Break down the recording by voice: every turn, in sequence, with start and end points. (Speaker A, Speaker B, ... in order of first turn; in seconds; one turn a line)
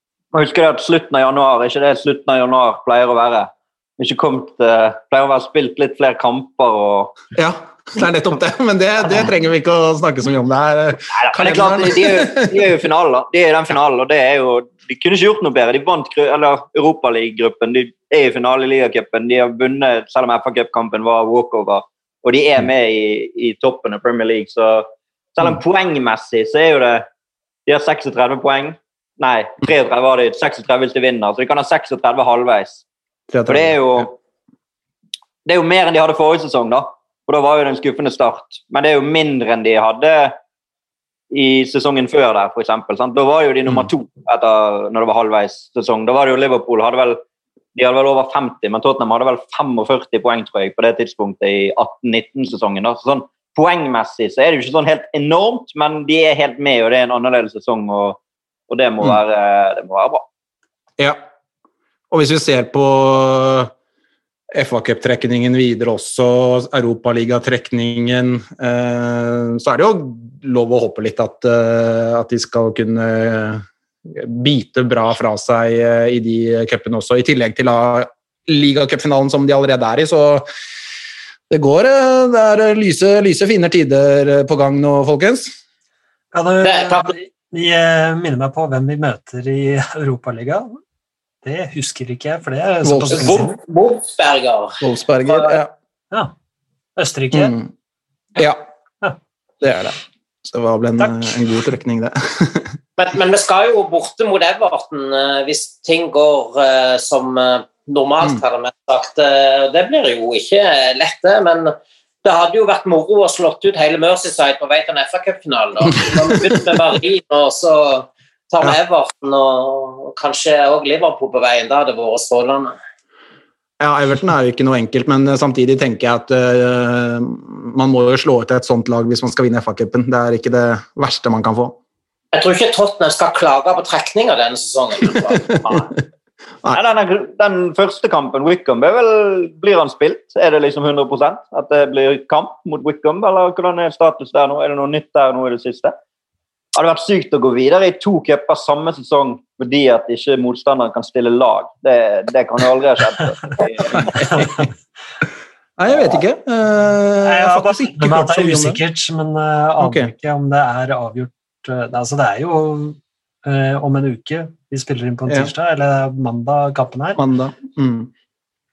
Speaker A: 0.3-7.2
Speaker B: 7.3-12.6
Speaker A: 11.1-27.1
Speaker A: 27.7-32.8
Speaker B: 33.3-34.1
Speaker A: 33.5-34.1
Speaker A: 35.5-40.4
Speaker A: 41.3-47.2
Speaker A: 47.7-60.2
Speaker B: 62.1-63.7
Speaker B: 64.5-80.5
Speaker B: 81.5-85.5
Speaker C: 86.3-90.8
Speaker D: 86.6-87.1
Speaker C: 91.4-93.6
Speaker B: 92.8-93.5
Speaker D: 93.1-95.6
Speaker B: 94.8-95.7
Speaker C: 97.0-97.6
Speaker B: 97.3-97.7
Speaker B: 98.4-98.6
Speaker B: 99.6-102.8
Speaker D: 103.0-122.7
Speaker B: 116.1-116.6
Speaker B: 123.8-131.8
Speaker D: 132.3-135.6
Speaker A: 136.7-145.9
Speaker A: 146.7-154.5
Speaker B: 154.0-154.5
Speaker B: 155.8-158.8
Speaker C: 157.2-167.2
Speaker B: 159.8-160.1
Speaker B: 165.3-165.5
Speaker B: 167.2-168.1